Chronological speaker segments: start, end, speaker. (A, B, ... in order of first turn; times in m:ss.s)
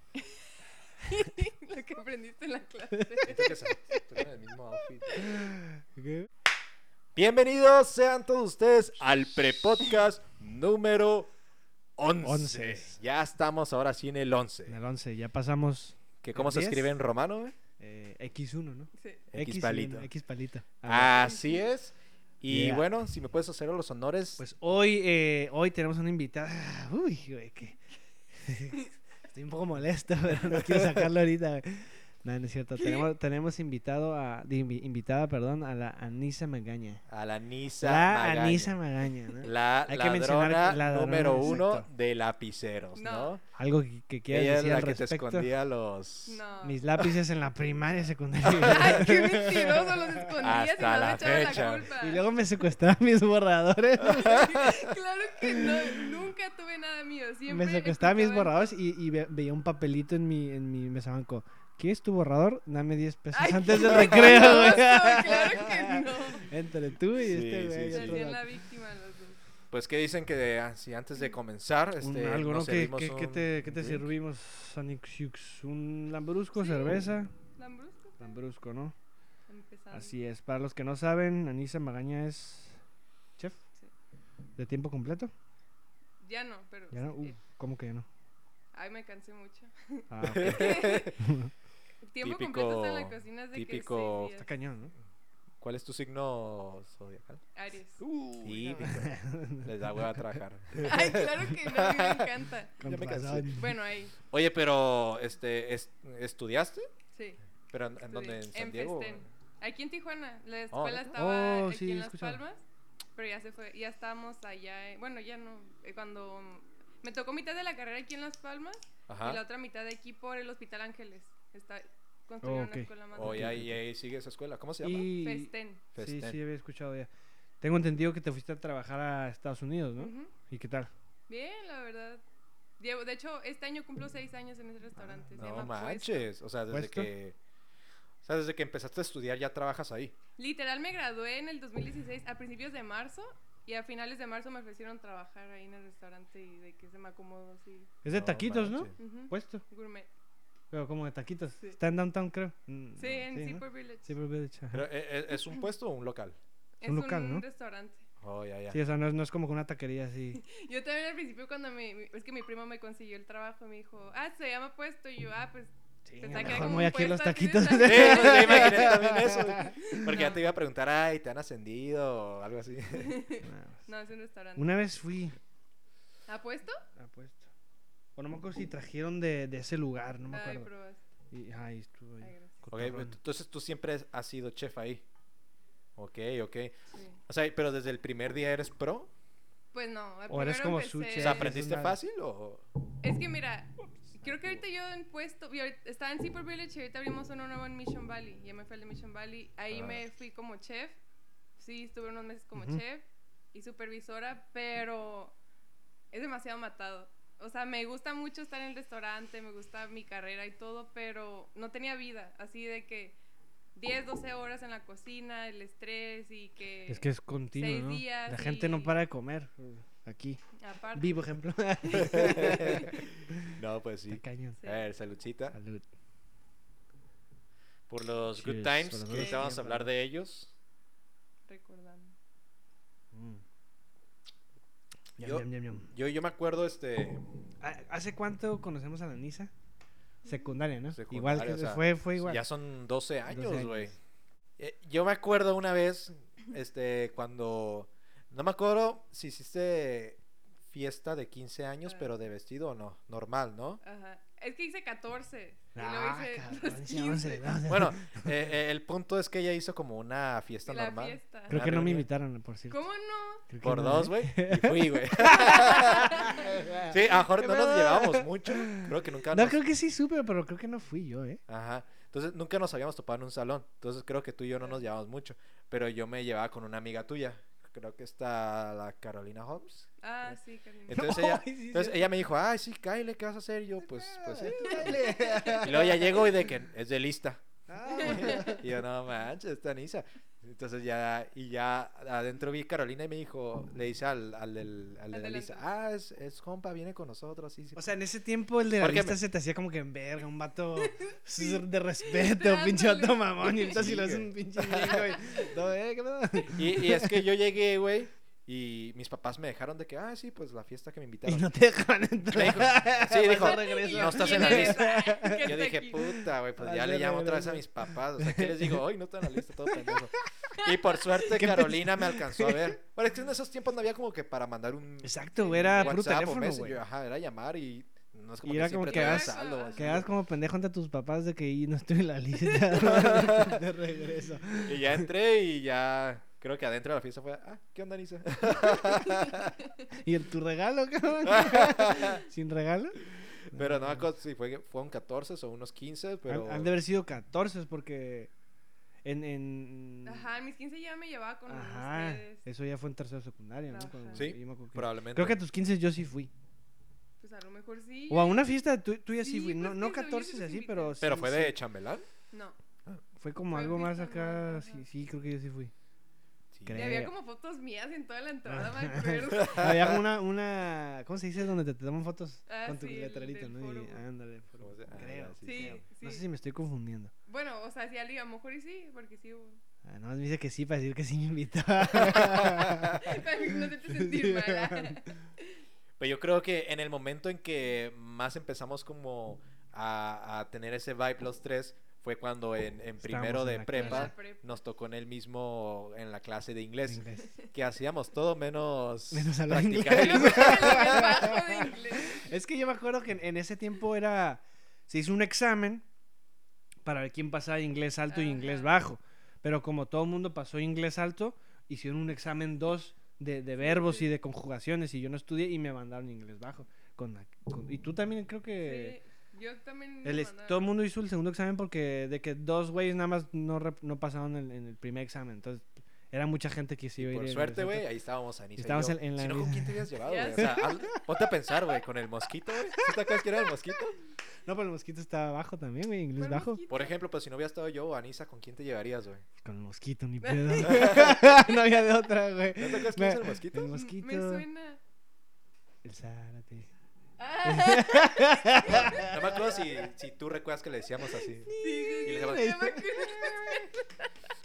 0:00.2-0:00.5 A
0:01.0-0:03.6 A
0:03.0-0:04.0 B
0:03.2-0:05.5 C
0:05.1-0:06.3 B
0:07.2-0:11.3 C
0:12.0-0:14.8 C
0:12.2-0:13.0 B
0:14.7-0:16.9 B
0:16.2-0:17.5 C
0:17.8-0:21.3 B
0:19.0-0:19.2 A
0:19.3-0:20.1 C
0:20.8-0:24.4 C
0:21.2-0:21.5 A
0:22.5-0:22.9 B
0:24.4-0:27.8 B
0:28.4-0:37.0 B
0:30.5-0:31.0 C
0:32.8-0:33.1 A
0:37.1-0:38.8 C
0:37.8-0:41.8 B
0:39.4-0:43.4 C
0:43.0-0:43.4 A
0:43.5-0:45.5 B
0:44.3-0:46.4 C
0:46.2-0:46.8 A
0:46.6-0:50.2 B
0:48.4-0:48.9 C
0:48.6-0:52.2 A
0:50.4-0:51.9 C
0:52.0-0:54.4 B
0:54.0-0:54.9 C
0:54.0-0:58.6 A
0:57.5-1:08.4 B
1:03.3-1:06.5 A
1:03.7-1:04.8 C
1:07.2-1:08.3 C
1:07.9-1:09.4 A
1:09.7-1:14.1 C
1:12.0-1:17.3 B
1:16.5-1:17.0 A
1:17.6-1:18.4 A
1:18.2-1:18.9 B
1:19.5-1:20.1 A
1:19.9-1:22.8 B
1:24.6-1:25.3 B
1:26.2-1:27.4 A
1:26.9-1:28.0 B
1:28.7-1:31.1 A
1:30.1-1:31.5 B
1:30.2-1:31.1 C
1:32.1-1:34.6 A
1:32.2-1:34.3 C
1:34.4-1:34.9 B
1:35.6-1:37.4 C
1:37.5-1:38.0 A
1:38.1-1:40.8 B
1:38.4-1:43.7 C
1:40.8-1:42.8 A
1:42.8-1:43.6 B
1:43.6-1:44.1 A
1:44.3-1:46.9 C
1:47.1-1:47.4 A
1:47.7-1:49.3 C
1:48.0-1:52.6 A
1:50.7-1:51.1 C
1:51.1-1:52.4 B
1:53.2-2:03.5 A
1:59.1-1:59.4 C
2:02.4-2:03.8 B
2:03.1-2:05.1 C
2:04.8-2:07.1 B
2:05.2-2:05.8 A
2:05.9-2:06.4 C
2:07.6-2:10.9 B
2:10.0-2:10.3 A
2:11.3-2:12.2 A
2:12.8-2:16.3 A
2:15.0-2:15.2 B
2:15.3-2:17.4 C
2:16.7-2:17.1 B
2:18.2-2:20.1 C
2:20.4-2:27.9 A
2:28.0-2:29.6 B
2:28.1-2:28.9 C
2:29.0-2:30.1 A
2:30.7-2:34.9 B
2:33.0-2:34.1 A
2:34.7-2:36.4 C
2:36.8-2:38.0 A
2:36.8-2:37.4 B
2:38.2-2:38.8 C
2:38.7-2:40.4 B
2:40.4-2:49.2 A
2:46.1-2:50.0 B
2:46.4-2:46.8 C
2:47.8-2:53.2 C
2:49.8-2:50.4 A
2:52.9-2:54.8 A
2:53.4-2:53.8 B
2:54.6-2:55.4 B
2:56.3-2:56.8 A
2:57.0-2:57.5 B
2:58.2-3:00.7 B
3:00.3-3:01.0 A
3:01.3-3:03.2 B
3:02.2-3:02.6 A
3:02.7-3:05.0 C
3:06.0-3:06.8 C
3:06.9-3:07.2 A
3:07.3-3:09.1 C
3:09.7-3:11.5 A
3:10.3-3:12.0 B
3:11.2-3:12.6 C
3:13.0-3:21.0 A
3:14.2-3:14.6 B
3:19.7-3:20.0 C
3:21.6-3:25.4 A
3:22.5-3:22.8 B
3:26.1-3:33.2 A
3:33.7-3:39.0 A
3:36.9-3:40.4 B
3:40.6-3:41.2 A
3:40.9-3:43.5 B
3:41.8-3:43.0 A
3:42.0-3:42.9 C
3:43.5-3:45.6 C
3:44.1-3:44.6 B
3:44.6-3:44.8 A
3:45.5-3:45.8 B
3:47.9-3:50.5 C
3:48.4-3:49.9 B
3:49.1-3:49.4 A
3:51.5-3:52.1 A
3:53.1-3:53.4 B
3:55.2-3:55.9 B
3:55.2-3:57.2 C
3:57.6-3:59.5 B
4:00.2-4:02.4 B
4:00.9-4:03.9 C
4:03.3-4:03.9 B
4:04.6-4:13.8 C
4:11.8-4:12.1 A
4:13.8-4:17.6 A
4:15.7-4:18.3 B
4:17.7-4:22.1 C
4:20.7-4:21.6 A
4:21.5-4:22.8 B
4:22.7-4:23.4 A
4:23.5-4:31.4 B
4:23.6-4:29.6 C
4:25.3-4:26.6 A
4:31.5-4:39.9 C
4:40.0-4:41.1 A
4:40.9-4:47.4 C
4:40.9-4:42.0 B
4:43.8-4:46.3 B
4:44.6-4:46.1 A
4:47.7-4:48.6 B
4:47.9-4:57.9 C
4:48.0-4:48.6 A
4:55.1-4:55.7 A
4:57.8-5:07.2 B
4:58.8-4:59.2 C
5:00.8-5:03.9 A
5:03.7-5:05.2 C
5:04.7-5:05.5 A
5:06.4-5:11.5 C
5:11.2-5:20.6 B
5:12.3-5:30.1 C
5:13.2-5:16.1 A
5:20.5-5:21.5 A
5:21.2-5:22.8 B
5:25.0-5:26.8 B
5:25.4-5:26.0 A
5:28.4-5:35.0 B
5:28.8-5:30.1 A
5:32.8-5:33.6 C
5:34.6-5:39.6 C
5:39.0-5:39.4 A
5:39.9-5:44.0 B
5:41.2-5:42.2 C
5:43.5-5:46.7 C
5:46.3-5:48.3 B
5:49.0-5:50.3 B
5:50.0-5:52.4 A
5:51.5-5:56.3 B
5:53.7-5:54.3 A
5:54.1-5:55.4 C
5:57.2-5:58.7 A
5:58.1-6:01.6 B
5:59.2-6:01.0 A
6:01.0-6:02.1 C
6:02.3-6:02.6 A
6:03.2-6:05.7 B
6:03.5-6:04.9 A
6:06.5-6:06.9 C
6:06.6-6:07.1 B
6:06.7-6:10.0 A
6:08.4-6:17.1 B
6:09.3-6:10.0 C
6:12.5-6:14.0 A
6:14.6-6:15.8 C
6:15.4-6:16.2 A
6:17.3-6:19.6 A
6:19.8-6:24.9 B
6:21.9-6:23.1 C
6:21.9-6:25.6 A
6:26.0-6:41.4 C
6:33.0-6:34.1 B
6:33.7-6:34.6 A
6:36.9-6:37.3 B
6:39.1-6:45.8 B
6:39.9-6:42.3 A
6:46.8-6:59.0 B
6:48.1-6:48.8 A
6:53.6-6:54.1 A
6:58.6-7:00.7 A
7:00.0-7:07.9 B
7:07.0-7:14.0 C
7:08.6-7:11.0 B
7:10.0-7:10.9 A
7:14.4-7:16.6 B
7:16.2-7:17.0 A
7:16.7-7:19.2 C
7:19.4-7:24.4 B
7:20.2-7:21.8 A
7:20.6-7:21.2 C
7:22.6-7:23.8 C
7:23.7-7:24.8 A
7:25.8-7:26.7 B
7:27.2-7:29.2 A
7:27.4-7:29.6 B
7:28.6-7:31.5 C
7:31.4-7:33.7 B
7:31.6-7:34.1 A
7:32.0-7:32.6 C